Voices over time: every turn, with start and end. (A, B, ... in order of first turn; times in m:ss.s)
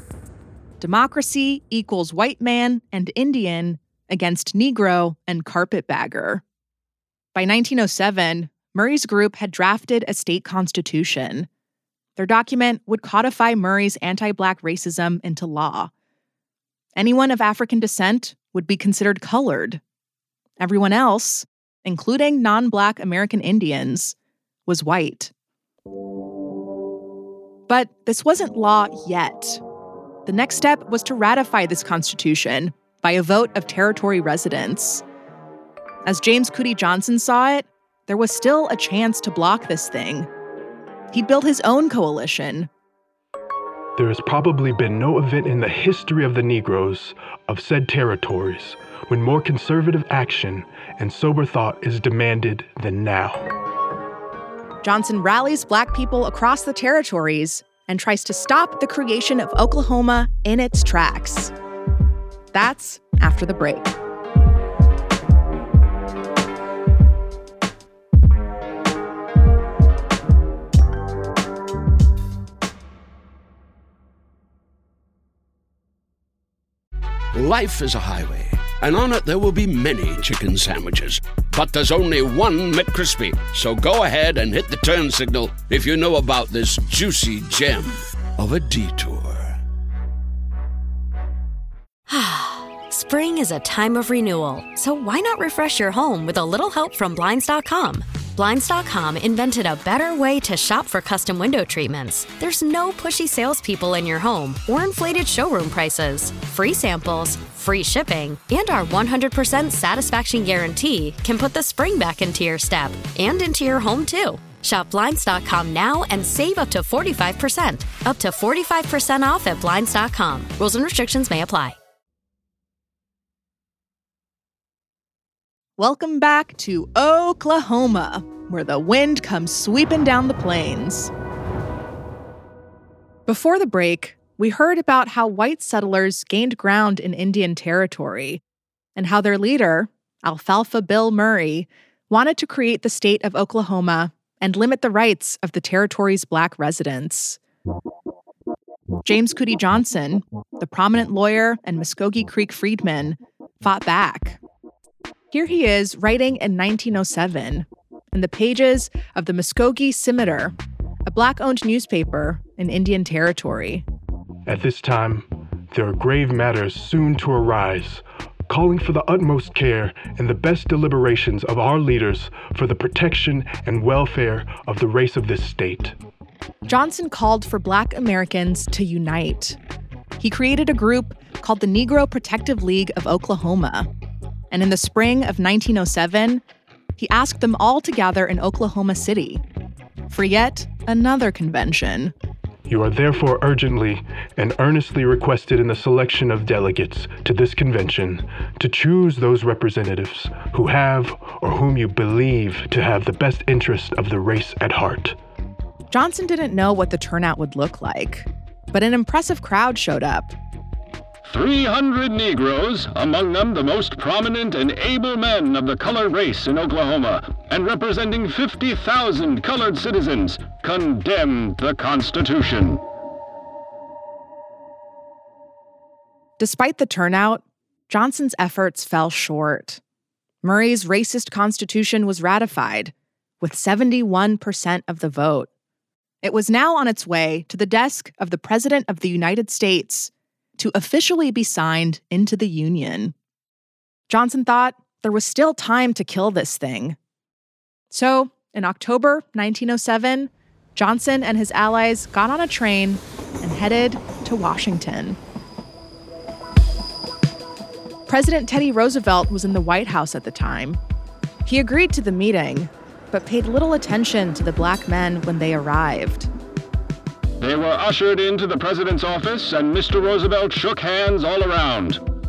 0:00.8-0:06.4 A
0:07.4-0:11.5 A
0:12.2-0:15.9 A
0:17.0-0:19.8 A
0:20.6-0:24.1 A
0:24.7-0:25.3 A
0:27.7-0:29.6 A
0:30.2-0:35.0 A
0:36.0-0:40.3 A
0:41.1-0:42.7 A
0:44.0-0:53.5 B
0:54.8-1:01.5 A
1:02.5-1:03.9 A
1:17.3-1:29.6 C
1:32.1-2:01.8 D
2:05.8-2:11.1 A
2:13.3-2:18.4 A
2:19.0-2:27.4 A
2:29.0-2:34.4 A
2:35.3-2:40.6 A
2:41.1-2:43.8 A
2:44.5-2:56.0 B
2:56.7-2:59.6 A
3:00.2-3:03.9 A
3:04.5-3:06.4 A
3:07.0-3:09.4 A
3:10.1-3:12.1 A
3:12.7-3:25.2 B
3:25.9-3:30.4 A
3:31.2-3:42.8 E
3:46.4-3:49.8 A
3:50.4-3:55.5 A
3:56.2-4:03.1 A
4:04.1-4:07.0 A
4:07.9-4:15.2 A
4:18.1-4:20.8 A
4:21.5-4:26.3 A
4:27.4-4:32.0 E